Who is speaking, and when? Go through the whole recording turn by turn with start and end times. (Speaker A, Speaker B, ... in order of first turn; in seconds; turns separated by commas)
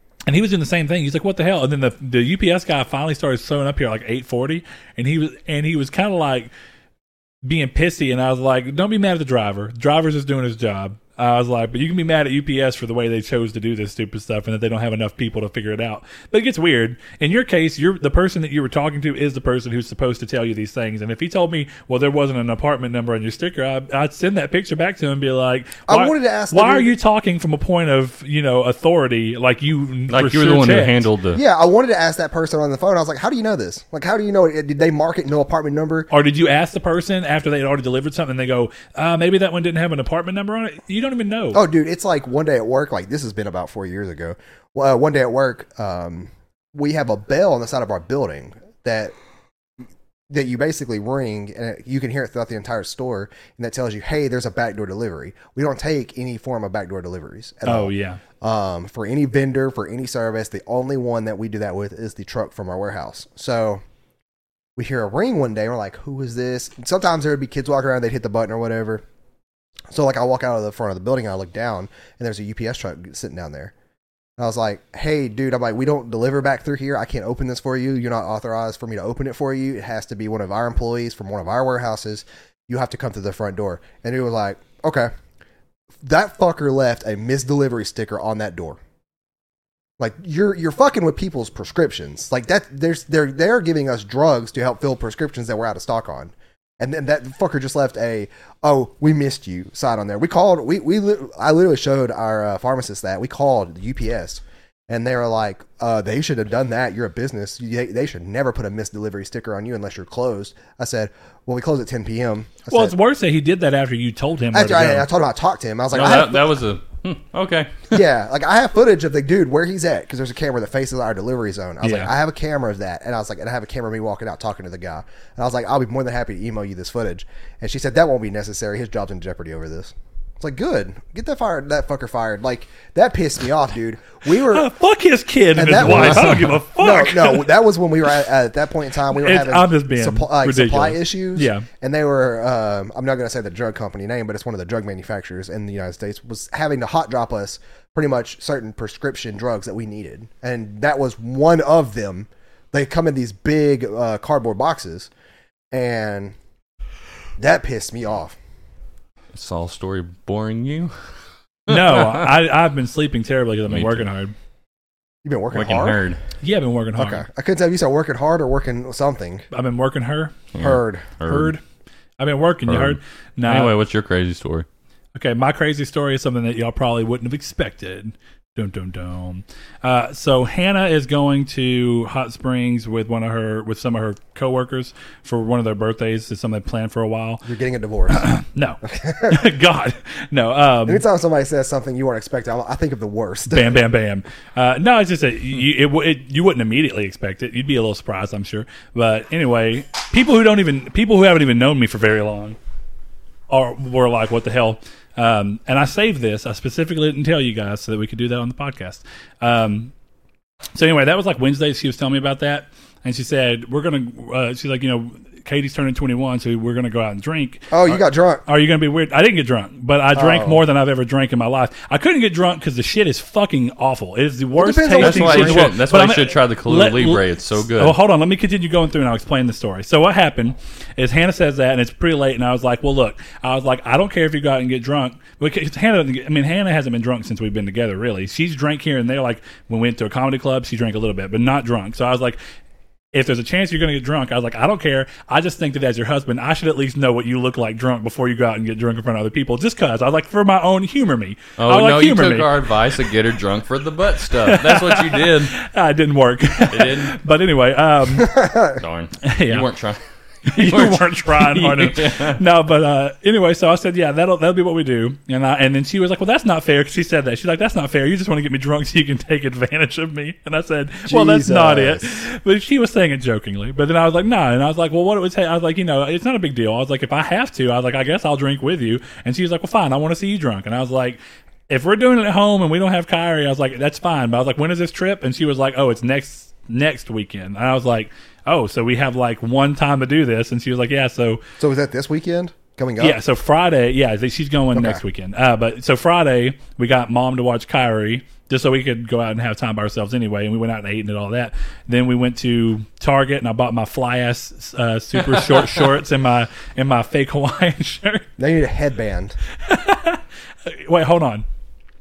Speaker A: 0.3-6.5, Speaker A: 7.4-31.0, Speaker B: 25.9-26.9, Speaker C: 30.1-31.4, Speaker B: 31.3-36.1, Speaker A: 36.1-41.6, Speaker B: 41.5-49.1, Speaker B: 50.3-63.8, Speaker A: 57.6-58.2, Speaker B: 64.8-69.0, Speaker B: 69.9-73.7, Speaker B: 74.4-85.1, Speaker B: 86.0-88.8, Speaker B: 90.0-112.9, Speaker A: 112.7-115.1, Speaker B: 114.5-116.5, Speaker C: 115.9-117.9, Speaker B: 117.9-134.7, Speaker A: 121.8-122.1, Speaker A: 134.4-137.5, Speaker B: 135.5-155.1, Speaker C: 135.8-136.6, Speaker A: 139.1-141.7, Speaker B: 155.7-156.3, Speaker B: 157.4-158.3, Speaker C: 159.3-160.9, Speaker C: 161.7-162.3, Speaker A: 161.7-164.3, Speaker C: 163.7-164.0, Speaker B: 165.2-166.1, Speaker C: 165.5-166.2, Speaker A: 166.4-167.2, Speaker B: 167.0-169.4, Speaker A: 169.5-170.5, Speaker C: 170.5-171.5, Speaker B: 170.6-171.1, Speaker A: 171.2-171.6, Speaker A: 172.2-173.7, Speaker C: 172.7-174.7, Speaker A: 175.1-187.4, Speaker B: 187.4-188.3, Speaker A: 188.1-191.0, Speaker B: 188.9-189.4, Speaker B: 190.8-193.8, Speaker A: 193.5-202.6, Speaker A: 203.5-209.9, Speaker A: 210.7-242.4, Speaker B: 217.7-218.4, Speaker B: 220.1-220.6, Speaker B: 224.6-225.7, Speaker C: 225.0-228.0, Speaker A: 243.1-252.5, Speaker C: 251.6-255.5, Speaker A: 254.3-258.5, Speaker C: 256.7-257.1, Speaker B: 258.2-258.8, Speaker C: 258.7-260.0, Speaker A: 259.2-259.7, Speaker A: 260.5-291.4, Speaker C: 260.5-262.4, Speaker B: 271.1-272.2, Speaker B: 291.6-293.2, Speaker A: 293.0-308.3, Speaker B: 294.7-295.0, Speaker C: 305.2-305.8, Speaker B: 308.4-309.4, Speaker A: 309.6-311.4